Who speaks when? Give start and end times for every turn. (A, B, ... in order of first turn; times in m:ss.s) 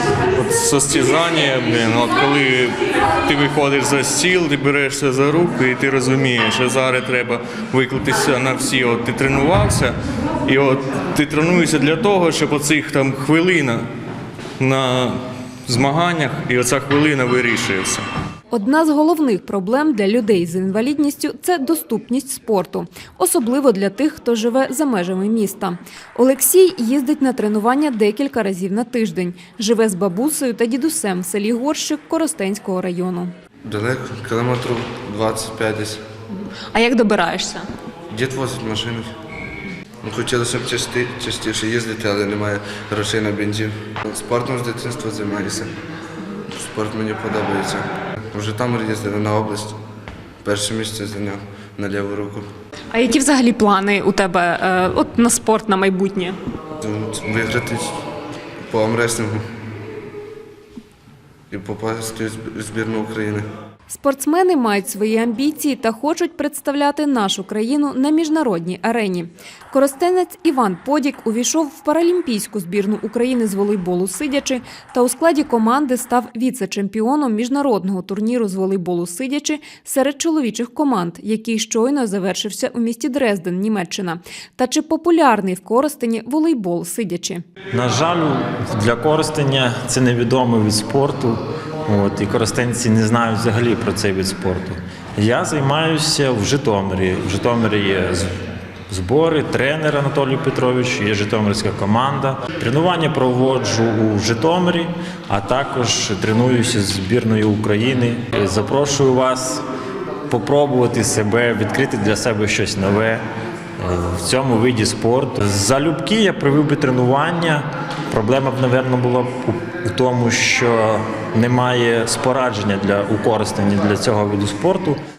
0:00.3-0:13.8 A
0:14.6-0:18.0 A
0:18.5-0:33.3 B
0:33.6-0:36.0 C
0:36.7-0:37.6 B
0:38.1-0:39.2 C
0:40.0-0:45.7 C
0:46.6-0:49.8 C
0:50.4-0:52.5 C
0:52.9-0:56.4 B
0:56.8-0:58.0 C
0:58.6-0:59.4 C
1:01.5-1:03.5 C
1:03.9-1:27.4 B
1:27.7-1:38.3 D
1:38.9-1:49.6 D
1:50.3-1:53.2 D
1:53.8-2:05.0 D